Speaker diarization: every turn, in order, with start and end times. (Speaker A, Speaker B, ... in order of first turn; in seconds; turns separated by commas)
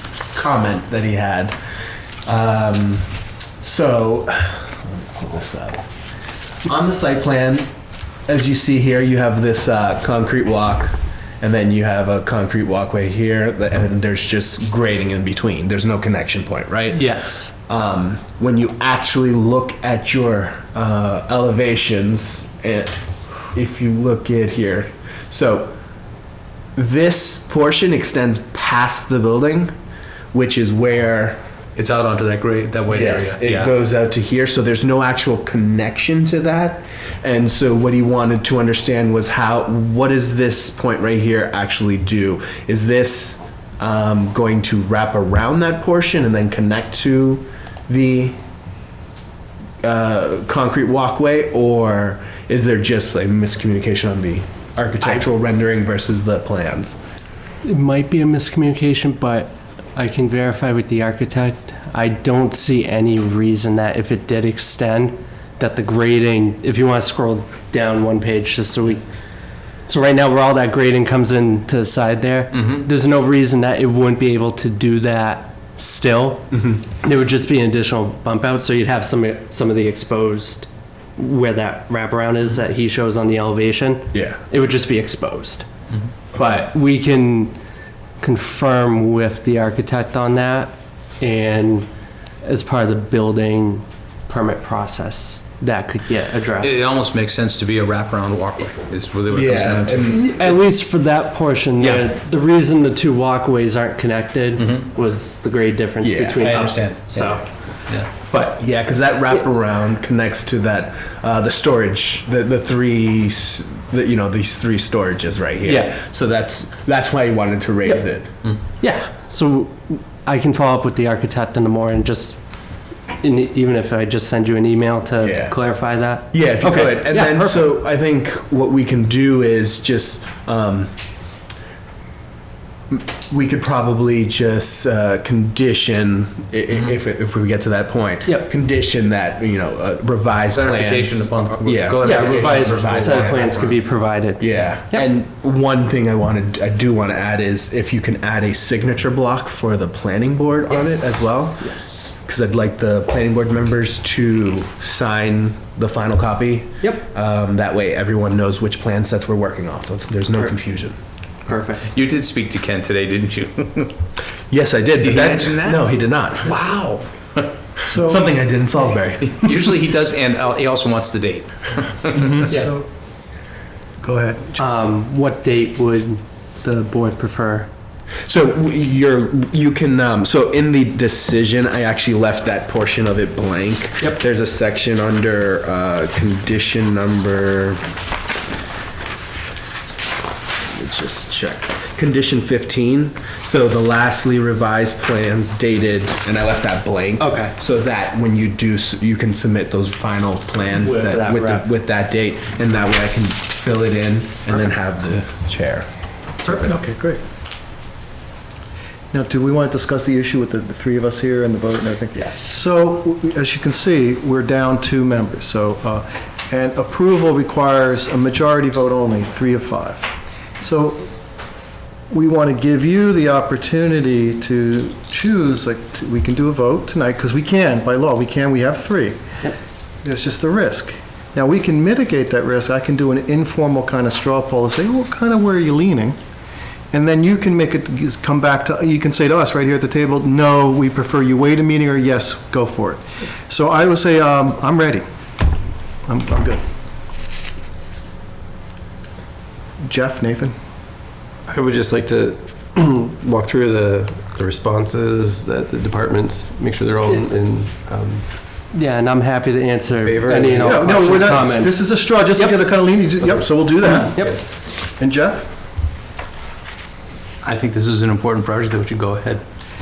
Speaker A: 0.3-1.5, Speaker A: 2.3-5.9, Speaker A: 6.7-7.7, Speaker A: 8.3-17.1, Speaker B: 16.9-17.5, Speaker A: 17.6-23.0, Speaker A: 23.5-25.7, Speaker A: 26.8-29.7, Speaker A: 30.3-31.4, Speaker C: 31.8-33.7, Speaker A: 32.9-48.4, Speaker A: 49.8-57.0, Speaker B: 57.6-69.0, Speaker B: 69.9-85.7, Speaker C: 72.6-72.8, Speaker A: 84.1-84.4, Speaker B: 86.3-87.6, Speaker B: 88.2-91.9, Speaker B: 92.4-96.9, Speaker C: 96.6-100.2, Speaker A: 99.3-100.4, Speaker B: 100.1-107.5, Speaker C: 104.6-104.9, Speaker A: 106.0-106.7, Speaker C: 106.4-107.3, Speaker B: 108.1-108.6, Speaker A: 108.6-118.3, Speaker B: 115.6-115.9, Speaker B: 118.8-122.4, Speaker B: 123.2-127.7, Speaker A: 125.2-125.6, Speaker A: 126.3-130.9, Speaker A: 132.9-143.7, Speaker C: 140.5-143.8, Speaker B: 142.0-145.1, Speaker A: 144.4-161.0, Speaker B: 150.7-151.0, Speaker B: 151.6-152.0, Speaker B: 161.5-161.9, Speaker C: 161.9-164.0, Speaker A: 164.5-166.6, Speaker C: 165.0-167.5, Speaker D: 167.9-168.3, Speaker A: 167.9-169.5, Speaker C: 169.2-172.5, Speaker D: 172.1-172.8, Speaker D: 174.0-174.6, Speaker B: 174.6-177.7, Speaker A: 178.3-187.8, Speaker A: 190.5-205.9, Speaker B: 197.2-197.6, Speaker B: 200.8-201.7, Speaker D: 206.5-207.2, Speaker D: 209.1-221.1, Speaker A: 212.2-212.5, Speaker D: 222.1-229.4, Speaker D: 230.0-236.2, Speaker D: 236.9-245.0, Speaker D: 246.1-246.6, Speaker D: 249.8-250.5, Speaker E: 251.5-258.3, Speaker B: 258.7-262.6, Speaker E: 260.0-261.6, Speaker D: 260.6-265.5, Speaker E: 263.2-263.6, Speaker B: 264.1-264.3, Speaker C: 267.4-269.4